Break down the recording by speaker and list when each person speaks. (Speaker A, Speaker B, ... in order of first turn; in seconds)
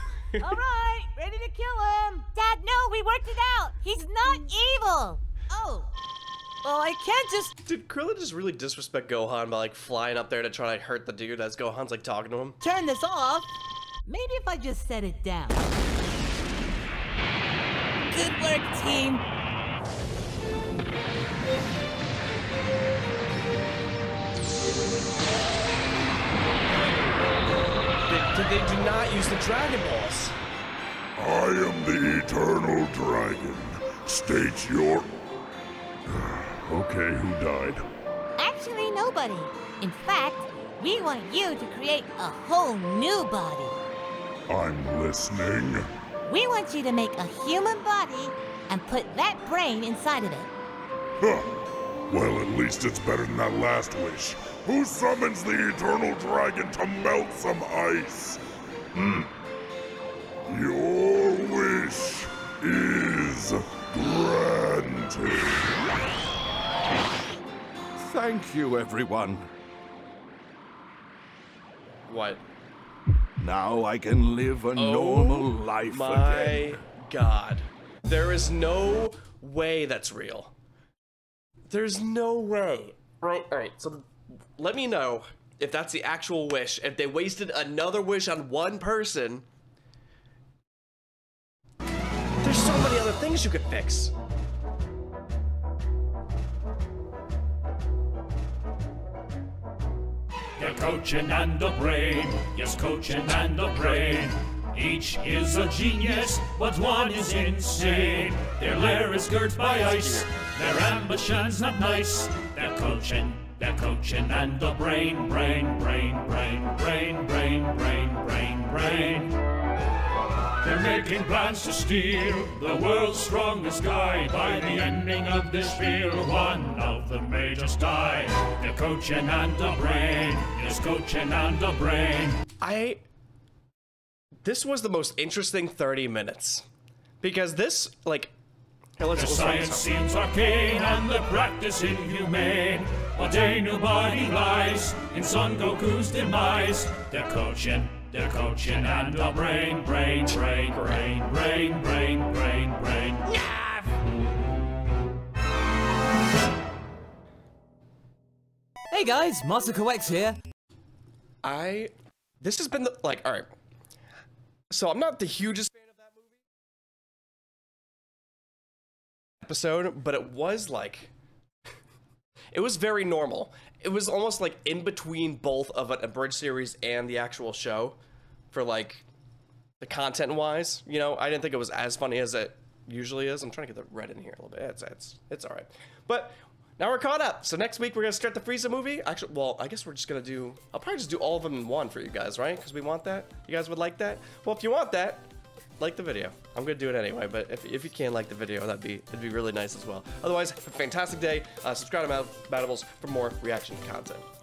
Speaker A: 0.4-2.2, 5.5-5.9, 6.6-7.5, 12.6-13.5, 14.1-15.7, 18.1-19.2, 158.9-160.4
Speaker B: 2.3-5.2, 38.4-43.8, 46.3-50.5
Speaker C: 7.6-12.6, 28.1-30.3, 72.1-72.4, 74.7-80.5, 81.7-89.4, 92.4-94.1, 109.6-110.3, 132.6-133.0, 134.4-136.7, 137.2-138.3, 139.0-139.9, 150.7-151.0, 161.4-163.5, 164.7-166.2, 169.4-171.1, 172.5-178.0, 178.5-179.0, 179.8-195.3, 195.8-204.2
Speaker D: 31.2-35.1, 36.1-37.8, 44.5-45.9, 51.2-51.5, 52.1-58.4, 60.5-65.7
Speaker E: 58.9-59.3, 68.0-69.5, 73.4-76.8
Speaker F: 100.6-119.3, 120.6-132.3, 139.1-153.3